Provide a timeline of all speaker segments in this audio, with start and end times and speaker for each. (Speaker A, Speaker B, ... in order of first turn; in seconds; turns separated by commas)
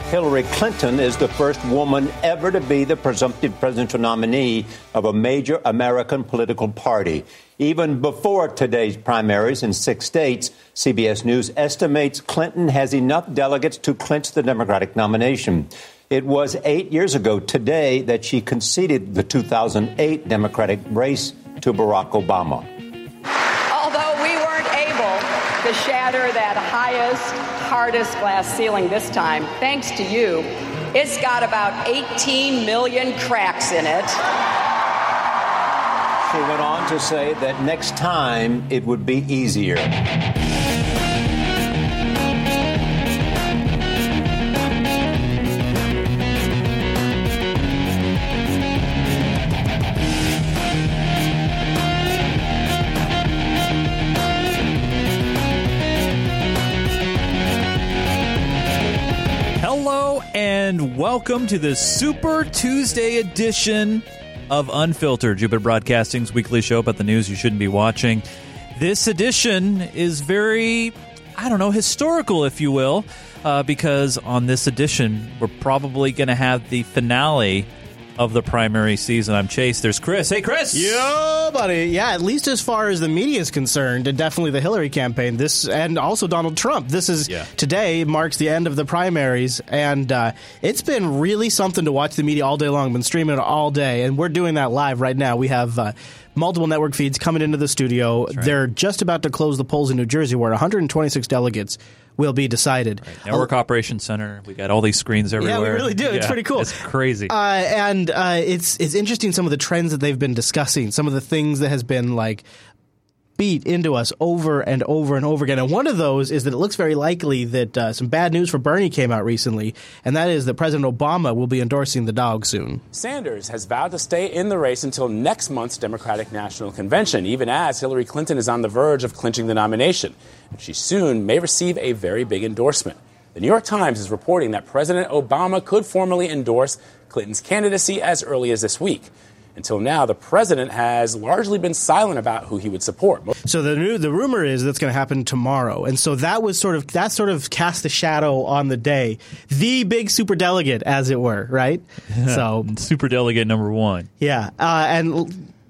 Speaker A: 0.1-22.6, Speaker B: 23.7-34.2, Speaker A: 36.3-39.9, Speaker C: 59.6-68.2, Speaker C: 68.8-81.0, Speaker D: 80.7-103.5, Speaker C: 103.0-107.3, Speaker D: 105.4-106.7, Speaker D: 107.3-112.4, Speaker D: 113.4-122.8, Speaker E: 122.9-143.3, Speaker D: 143.4-152.7, Speaker C: 152.1-154.1, Speaker D: 154.2-155.5